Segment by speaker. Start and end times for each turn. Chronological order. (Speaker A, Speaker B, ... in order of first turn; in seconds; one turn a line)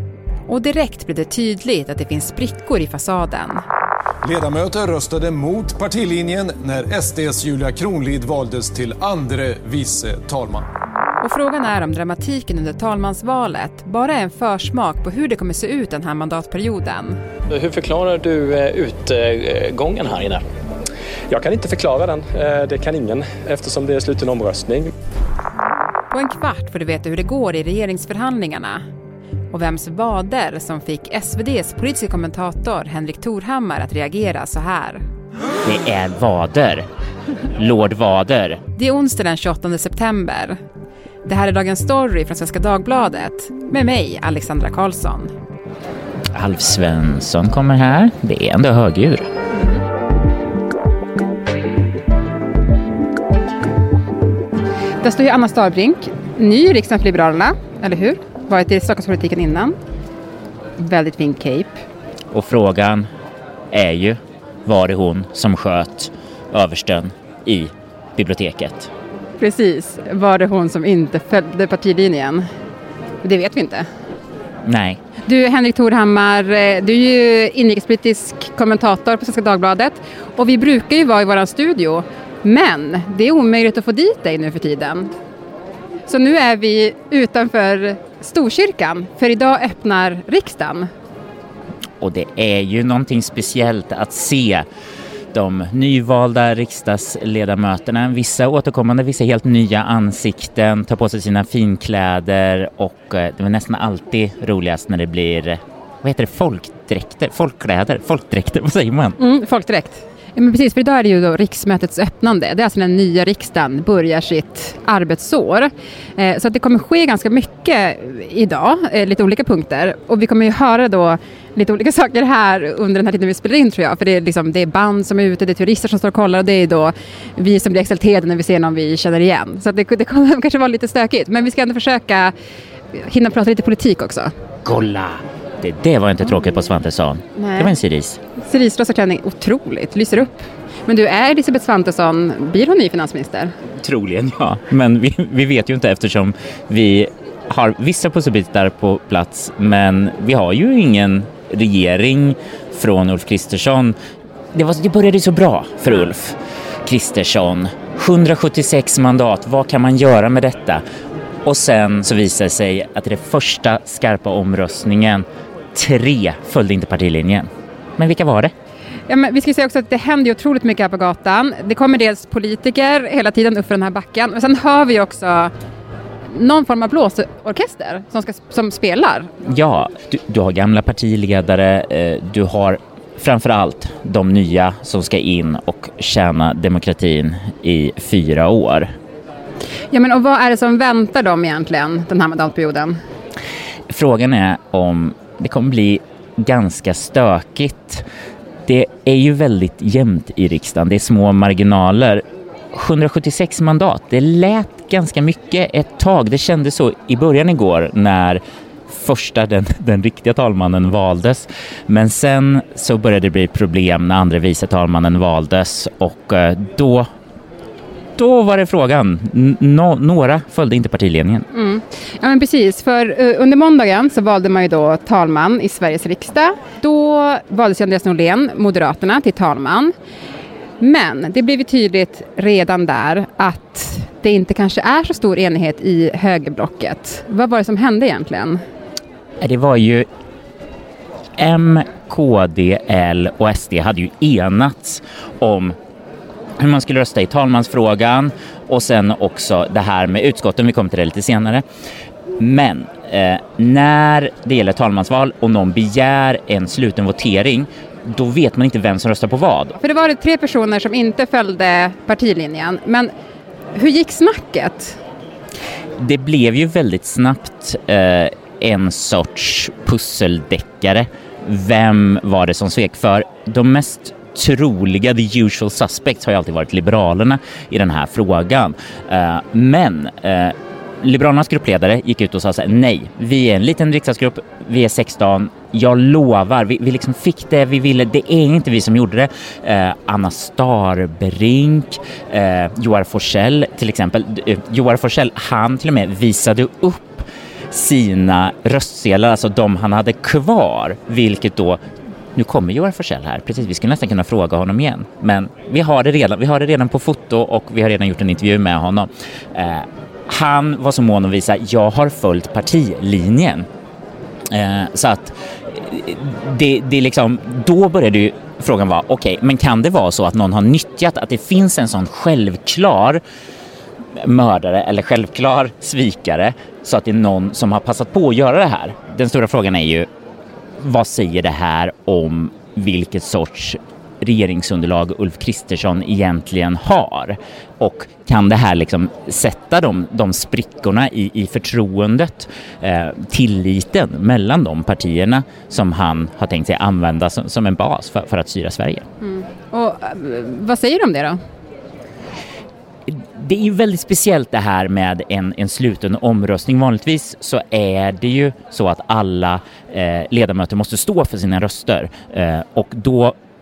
Speaker A: 0.5-3.6
Speaker B: 4.2-10.7
Speaker A: 11.2-17.2
Speaker C: 17.6-20.4
Speaker D: 21.4-24.8
Speaker A: 26.1-28.8
Speaker A: 29.5-35.0
Speaker E: 35.6-36.8
Speaker E: 37.5-38.6
Speaker A: 38.8-40.6
Speaker A: 41.2-45.3
Speaker E: 46.3-49.3
Speaker A: 55.0-59.7
Speaker A: 60.8-61.8
Speaker E: 62.3-63.1
Speaker E: 63.7-68.9
Speaker A: 69.4-72.4
Speaker A: 73.2-73.8
Speaker E: 74.7-75.0
Speaker A: 75.2-85.1
Speaker A: 86.1-90.9
Speaker E: 92.0-94.7
Speaker E: 95.3-109.2
Speaker A: 109.2-132.3
Speaker A: 132.9-134.3
Speaker E: 134.6-138.2
Speaker A: 137.3-137.7
Speaker A: 138.4-143.5
Speaker E: 143.8-153.9
Speaker E: 154.5-160.8
Speaker E: 161.4-168.5
Speaker A: 169.1-175.5
Speaker A: 176.3-179.3
Speaker E: 179.5-188.9
Speaker A: 189.9-193.0
Speaker E: 193.9-198.0
Speaker E: 198.7-202.2
Speaker E: 202.7-217.1
Speaker E: 218.2-221.4
Speaker A: 221.5-229.9
Speaker A: 230.8-238.6
Speaker E: 239.4-240.1
Speaker E: 241.4-245.7
Speaker E: 246.6-251.6
Speaker E: 252.4-259.8
Speaker A: 259.8-263.1
Speaker A: 263.7-265.0
Speaker E: 266.0-301.8
Speaker E: 302.4-313.7
Speaker E: 314.5-323.2
Speaker E: 324.2-330.1
Speaker E: 330.8-349.0
Speaker A: 349.2-351.4
Speaker E: 353.1-363.3